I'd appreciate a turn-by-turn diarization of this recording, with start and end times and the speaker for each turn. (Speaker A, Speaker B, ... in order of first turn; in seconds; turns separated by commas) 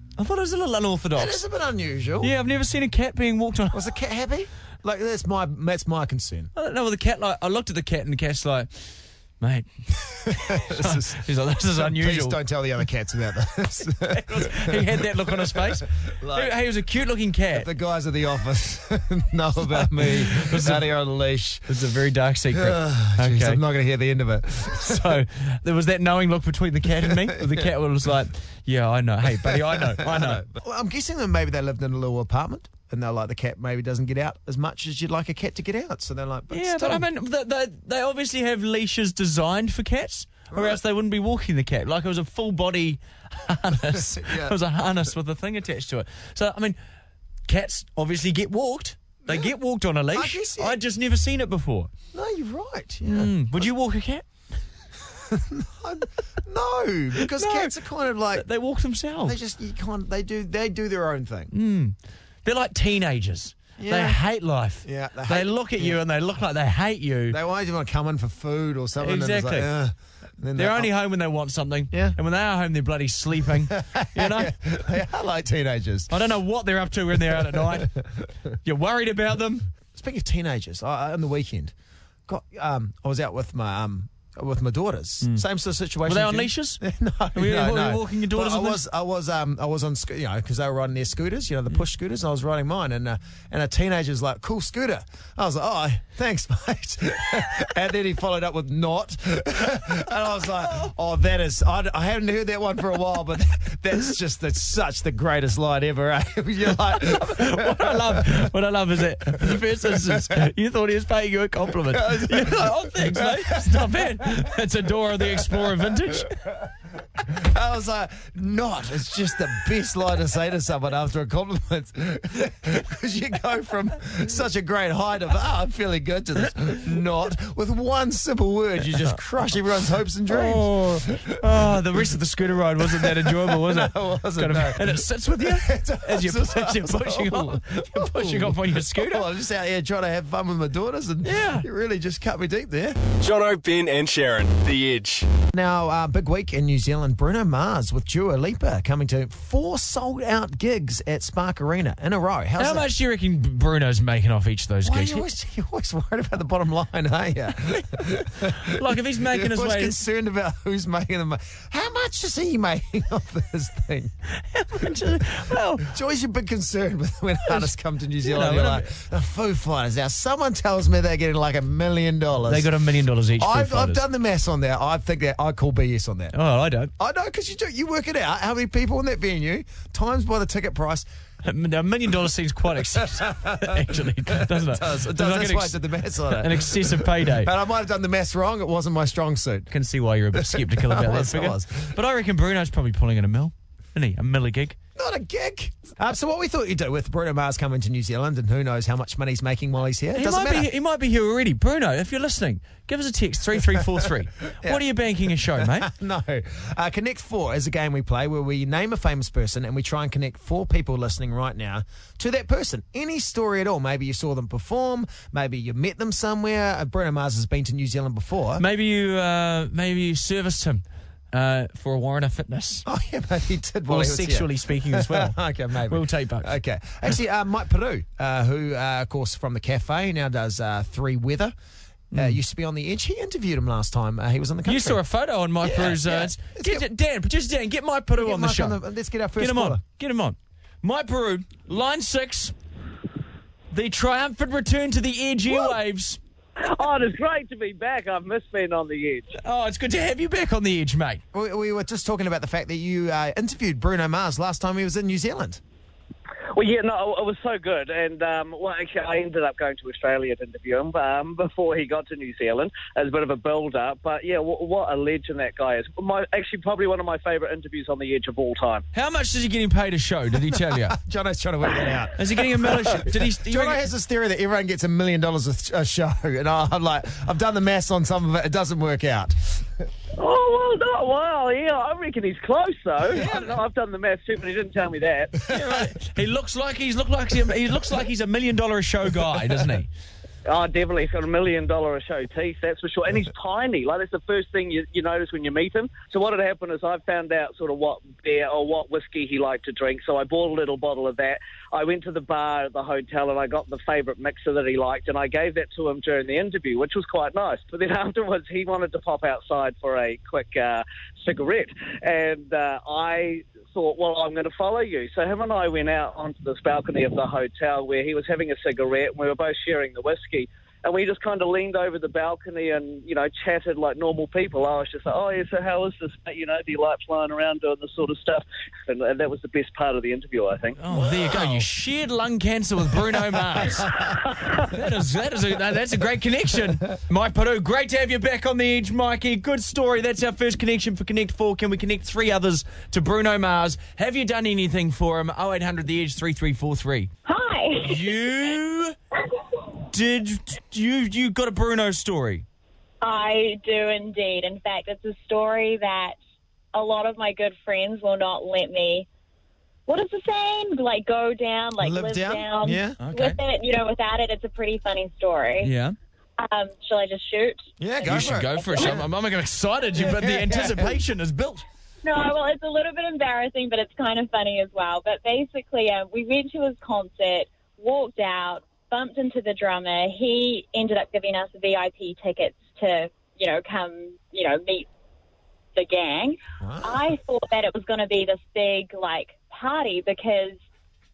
Speaker A: 0.2-1.4, Speaker B: 1.1-2.3, Speaker A: 2.2-3.9, Speaker B: 3.7-6.5, Speaker A: 6.5-12.4, Speaker B: 10.2-16.5, Speaker A: 14.1-17.7, Speaker B: 17.5-21.8, Speaker A: 19.7-20.9, Speaker A: 21.7-23.6, Speaker B: 22.5-25.2, Speaker A: 24.8-30.4, Speaker B: 27.0-27.7, Speaker B: 29.4-37.0, Speaker A: 36.5-46.8, Speaker B: 40.5-40.8, Speaker B: 43.8-44.5, Speaker A: 47.5-51.9, Speaker B: 49.2-49.5, Speaker B: 50.1-50.8, Speaker B: 52.1-53.7, Speaker A: 53.0-54.2, Speaker B: 55.2-58.4, Speaker A: 57.2-57.7, Speaker A: 58.3-59.4, Speaker B: 59.2-61.5, Speaker A: 61.5-67.4, Speaker B: 63.8-64.2, Speaker B: 64.8-66.0, Speaker B: 67.3-70.9, Speaker A: 69.0-69.7, Speaker A: 70.5-74.5, Speaker B: 71.9-72.2, Speaker B: 73.7-76.1, Speaker A: 76.1-77.9, Speaker B: 77.2-78.3, Speaker A: 78.6-79.7, Speaker B: 79.9-81.7, Speaker B: 82.3-108.5, Speaker A: 86.0-86.8, Speaker A: 87.3-88.8, Speaker A: 107.0-116.4, Speaker B: 109.3-110.4, Speaker B: 111.9-114.4, Speaker B: 115.2-116.2, Speaker B: 117.2-131.3, Speaker A: 130.3-139.3, Speaker B: 132.8-143.0, Speaker A: 141.2-141.7, Speaker C: 143.2-145.3, Speaker B: 145.5-152.9, Speaker A: 152.6-155.2, Speaker B: 154.8-164.1, Speaker A: 157.6-160.0, Speaker A: 164.5-165.9, Speaker B: 165.8-172.7, Speaker A: 168.2-168.9, Speaker A: 172.5-174.0, Speaker B: 173.4-176.3, Speaker A: 176.3-176.9, Speaker B: 177.0-181.1, Speaker A: 181.4-187.5, Speaker B: 183.0-189.7, Speaker A: 189.7-194.8, Speaker B: 190.3-191.9, Speaker B: 194.9-200.7, Speaker A: 200.1-205.9, Speaker B: 205.4-218.6, Speaker A: 218.6-222.8, Speaker B: 222.8-231.5, Speaker A: 223.9-226.5, Speaker A: 232.1-232.4, Speaker B: 232.1-235.0, Speaker A: 234.7-238.8, Speaker B: 235.6-236.8, Speaker B: 238.1-239.8, Speaker A: 239.4-242.5, Speaker A: 243.7-246.2, Speaker D: 246.6-249.3, Speaker A: 249.4-251.2, Speaker B: 251.3-255.6, Speaker D: 256.5-268.8, Speaker A: 268.9-270.9, Speaker B: 270.4-279.8, Speaker A: 272.2-273.8, Speaker D: 280.2-285.4, Speaker B: 283.2-283.4, Speaker A: 285.5-289.9, Speaker B: 285.5-285.8, Speaker D: 290.5-330.8, Speaker A: 330.8-333.9, Speaker B: 330.9-331.6, Speaker B: 333.6-334.0, Speaker A: 334.7-347.1, Speaker E: 347.2-348.2, Speaker A: 347.8-348.9, Speaker A: 349.9-352.4, Speaker E: 353.0-356.1, Speaker E: 356.7-359.1, Speaker E: 359.9-365.7, Speaker B: 361.8-363.0, Speaker A: 363.0-363.4, Speaker A: 365.6-365.9, Speaker E: 366.4-369.0, Speaker B: 367.8-369.1, Speaker A: 368.1-371.6, Speaker B: 369.9-371.0, Speaker E: 372.0-384.9, Speaker E: 385.7-390.6, Speaker B: 386.6-387.1